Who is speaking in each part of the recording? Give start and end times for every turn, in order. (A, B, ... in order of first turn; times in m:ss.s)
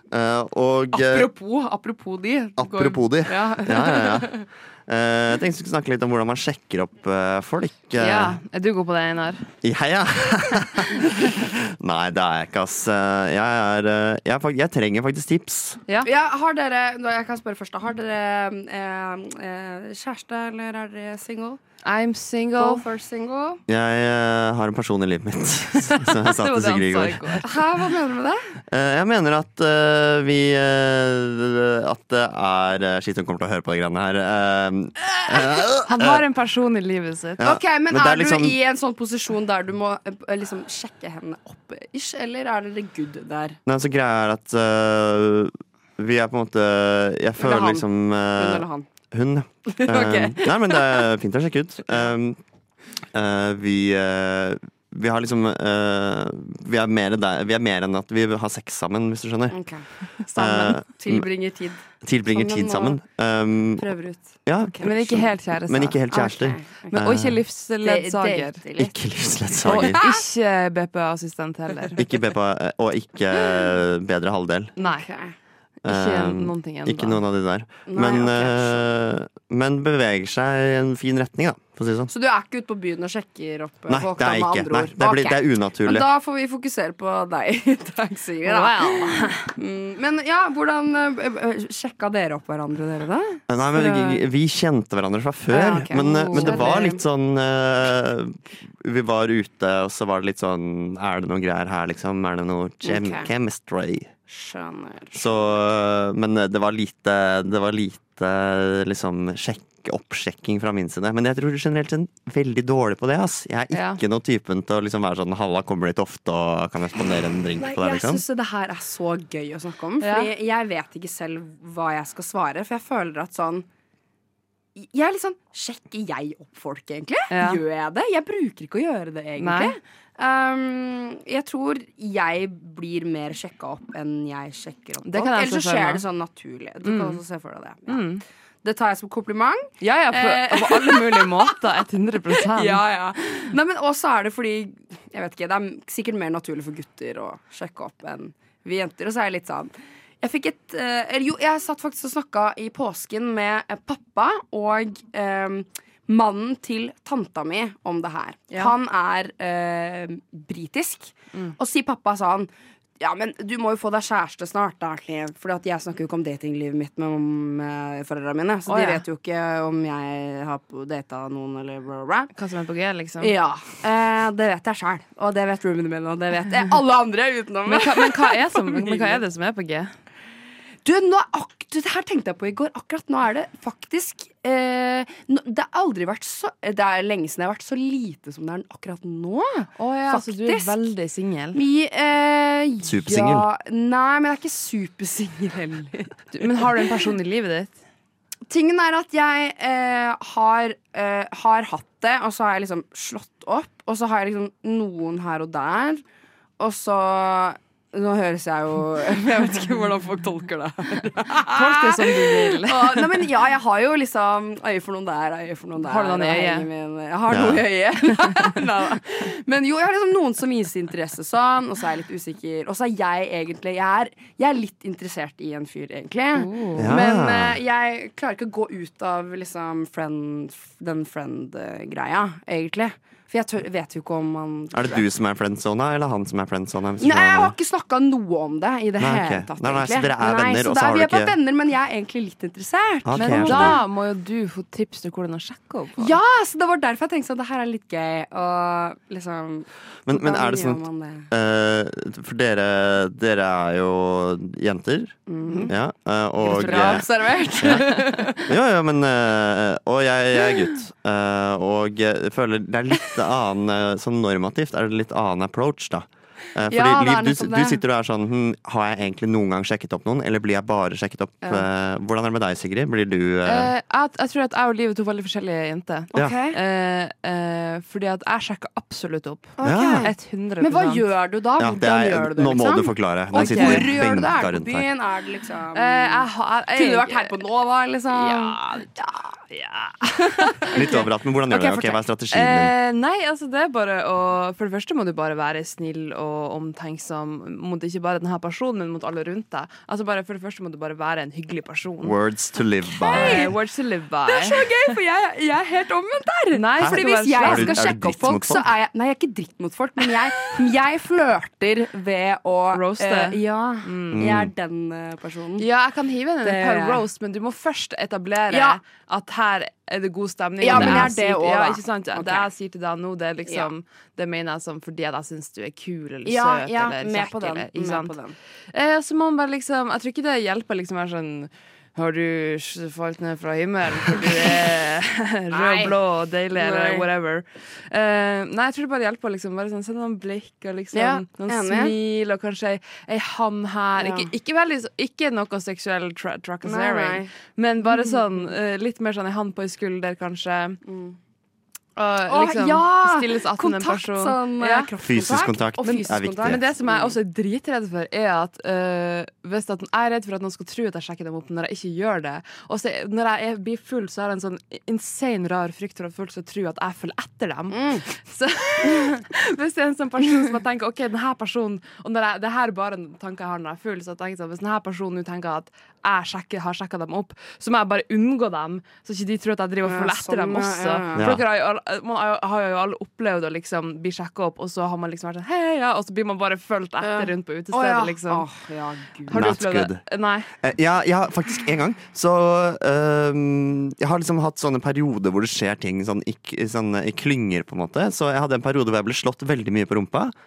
0:00.1-0:01.3 A
0:00.9-0:04.4 B
0:02.6-0:08.4 A
0:08.0-0:09.5 C
0:09.6-0:15.8 A
0:16.0-0:21.6 B
0:21.8-0:22.8 C
0:22.6-0:23.6 B
0:23.7-0:27.4 A
0:25.9-0:27.5 C
0:27.4-0:28.6 B
0:28.7-0:36.2 A
0:35.9-0:37.4 C
0:37.4-0:38.6 A
0:37.4-0:43.6 B
0:43.6-0:52.4 A
0:47.4-0:48.9 B
0:49.7-0:51.1 B
0:53.1-0:59.6 A
0:59.5-1:03.0 B
1:00.4-1:01.2 A
1:02.0-1:03.9 A
1:03.8-1:05.1 B
1:04.4-1:07.4 A
1:04.8-1:06.1 C
1:06.1-1:07.0 B
1:06.9-1:08.6 C
1:07.8-1:08.9 B
1:08.8-1:10.0 A
1:09.6-1:10.2 B
1:09.7-1:12.0 C
1:12.0-1:14.7 A
1:14.8-1:15.1 C
1:14.8-1:15.3 B
1:15.8-1:17.2 C
1:15.8-1:22.1 A
1:17.9-1:18.9 B
1:22.1-1:34.2 B
1:23.9-1:26.0 A
1:28.4-1:29.5 C
1:33.5-1:44.1 A
1:35.5-1:37.0 B
1:35.9-1:36.8 C
1:42.8-1:43.3 B
1:44.3-1:45.4 B
1:45.1-1:58.2 A
1:53.7-1:54.0 C
1:57.6-2:03.7 B
2:00.0-2:00.3 C
2:04.8-2:18.0 B
2:07.3-2:07.6 C
2:09.4-2:09.7 C
2:15.0-2:16.0 C
2:16.8-2:17.2 C
2:17.9-2:18.2 C
2:18.6-2:21.6 B
2:19.8-2:22.8 C
2:22.3-2:52.3 B
2:48.7-2:49.0 C
2:52.3-2:53.3 C
2:53.2-2:59.2 B
2:57.6-2:59.9 C
3:00.8-3:10.8 B
3:09.8-3:11.6 C
3:11.5-3:16.9 B
3:12.8-3:13.5 A
3:16.3-3:17.7 C
3:18.5-3:26.0 B
3:26.6-3:55.0 B
3:31.4-3:33.2 C
3:35.8-3:36.6 C
3:37.3-3:37.6 A
3:46.3-3:47.0 C
3:46.8-3:47.6 A
3:54.7-3:57.5 A
3:57.0-4:03.8 B
3:59.0-4:01.3 A
4:03.0-4:03.8 A
4:03.2-4:06.1 C
4:06.0-4:11.3 B
4:10.0-4:15.2 A
4:15.3-4:15.7 B
4:15.7-4:17.0 A
4:16.4-4:18.5 B
4:16.5-4:17.0 C
4:17.6-4:17.8 A
4:18.4-4:33.7 A
4:26.7-4:27.8 B
4:33.4-4:41.0 C
4:36.1-4:36.6 B
4:39.6-4:49.2 B
4:39.6-4:40.1 A
4:41.6-4:44.9 A
4:43.3-4:44.0 C
4:45.7-4:47.4 C
4:48.1-4:51.0 C
4:50.1-4:51.9 B
4:50.7-4:52.7 A
4:52.3-5:02.2 C
5:02.0-5:03.5 A
5:03.0-5:03.6 B
5:03.1-5:04.9 C
5:04.2-5:15.6 B
5:06.5-5:07.8 C
5:06.8-5:08.7 A
5:12.7-5:14.3 C
5:14.1-5:14.5 A
5:15.6-5:28.1 C
5:16.4-5:17.0 B
5:18.5-5:18.8 B
5:20.6-5:22.5 B
5:20.7-5:21.1 A
5:26.2-5:28.3 B
5:28.7-5:50.8 C
5:35.5-5:35.9 B
5:36.5-5:37.1 B
5:40.9-5:41.9 B
5:44.0-5:44.3 B
5:46.6-5:47.3 B
5:47.8-5:48.5 B
5:50.8-5:51.2 B
5:52.0-5:54.9 C
5:52.3-5:57.1 B
5:55.0-5:56.6 A
5:56.3-6:28.4 C
6:07.7-6:08.0 B
6:19.8-6:21.3 B
6:21.2-6:21.4 A
6:27.0-6:29.5 B
6:29.3-6:30.5 C
6:29.3-6:30.0 A
6:30.6-6:40.3 A